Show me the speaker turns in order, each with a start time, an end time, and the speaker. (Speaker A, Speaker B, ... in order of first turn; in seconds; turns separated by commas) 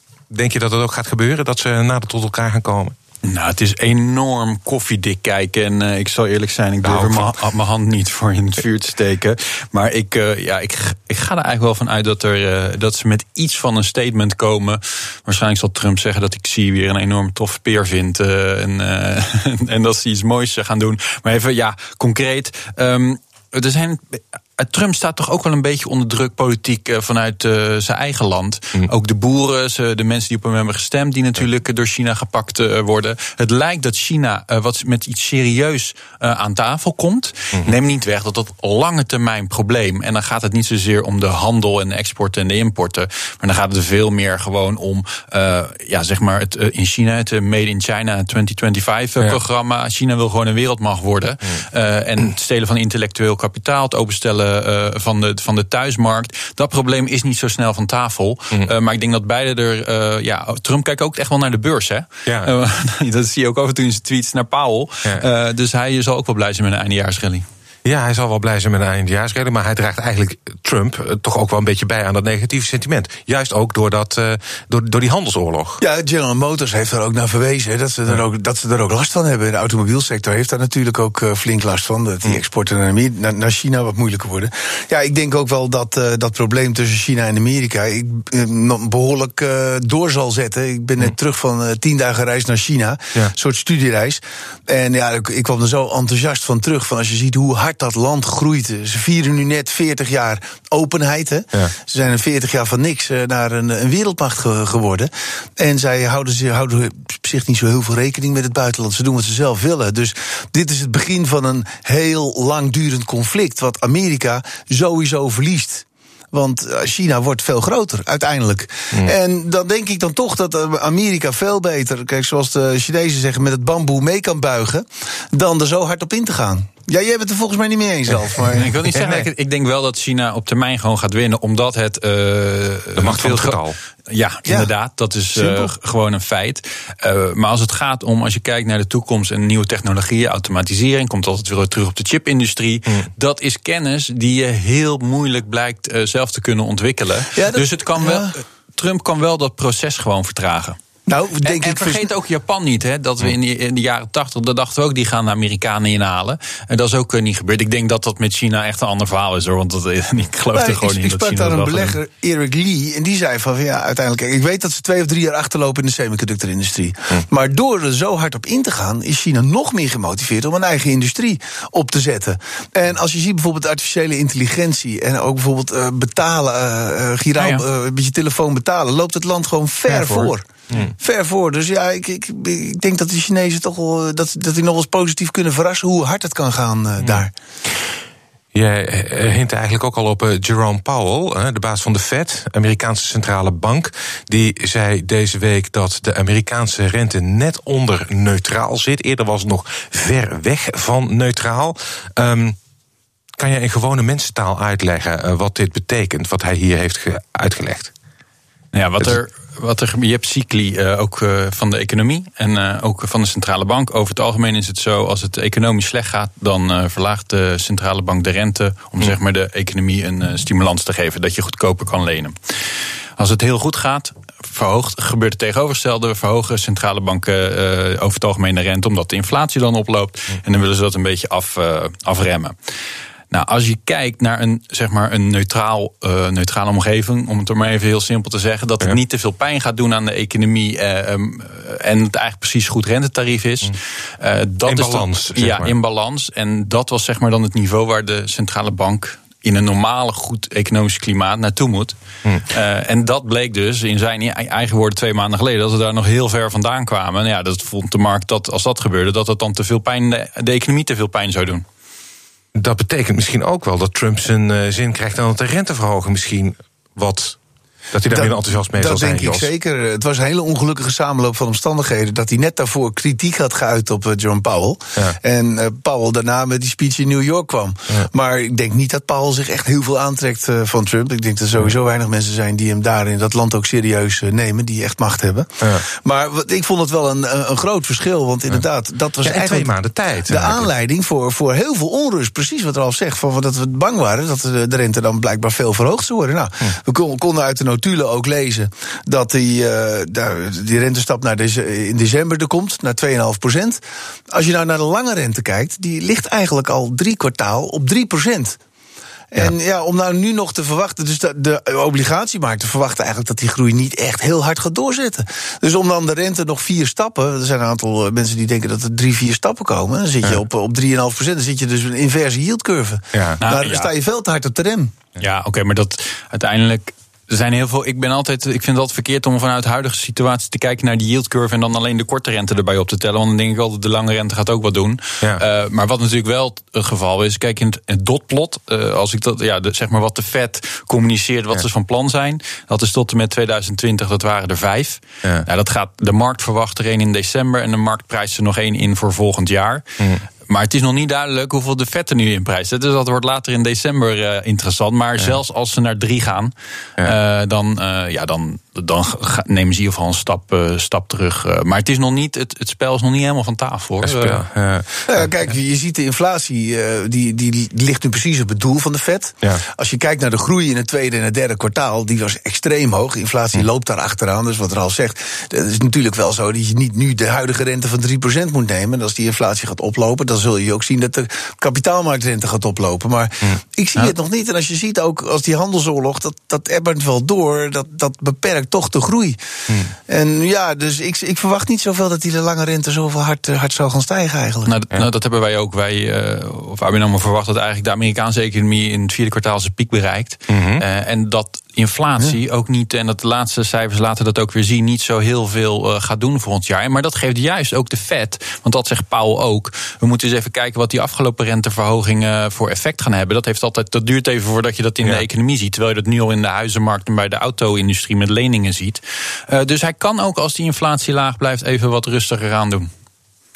Speaker A: 0.3-2.9, Speaker B: 3.2-67.5, Speaker A: 6.8-7.4, Speaker A: 67.8-75.8, Speaker C: 75.8-128.7, Speaker A: 128.3-129.3, Speaker B: 128.5-150.8, Speaker A: 133.0-133.8, Speaker C: 135.3-135.7, Speaker C: 147.3-148.3, Speaker C: 151.1-152.1, Speaker B: 151.4-162.0, Speaker C: 160.5-187.3, Speaker B: 177.3-177.6, Speaker B: 179.9-180.3, Speaker A: 188.5-202.6, Speaker A: 203.4-207.9, Speaker B: 208.7-222.4, Speaker B: 223.2-232.6, Speaker B: 233.3-261.6, Speaker A: 244.7-245.7, Speaker A: 262.5-267.4, Speaker A: 267.9-269.5, Speaker C: 268.1-308.6, Speaker A: 289.2-290.7, Speaker C: 309.3-324.9, Speaker A: 323.1-323.4, Speaker B: 323.4-323.9, Speaker B: 325.2-349.9, Speaker B: 350.5-364.4, Speaker A: 364.0-365.2, Speaker C: 365.1-389.4, Speaker A: 383.4-384.1, Speaker A: 389.7-389.9, Speaker C: 390.1-394.7, Speaker B: 394.7-422.9, Speaker A: 400.5-400.8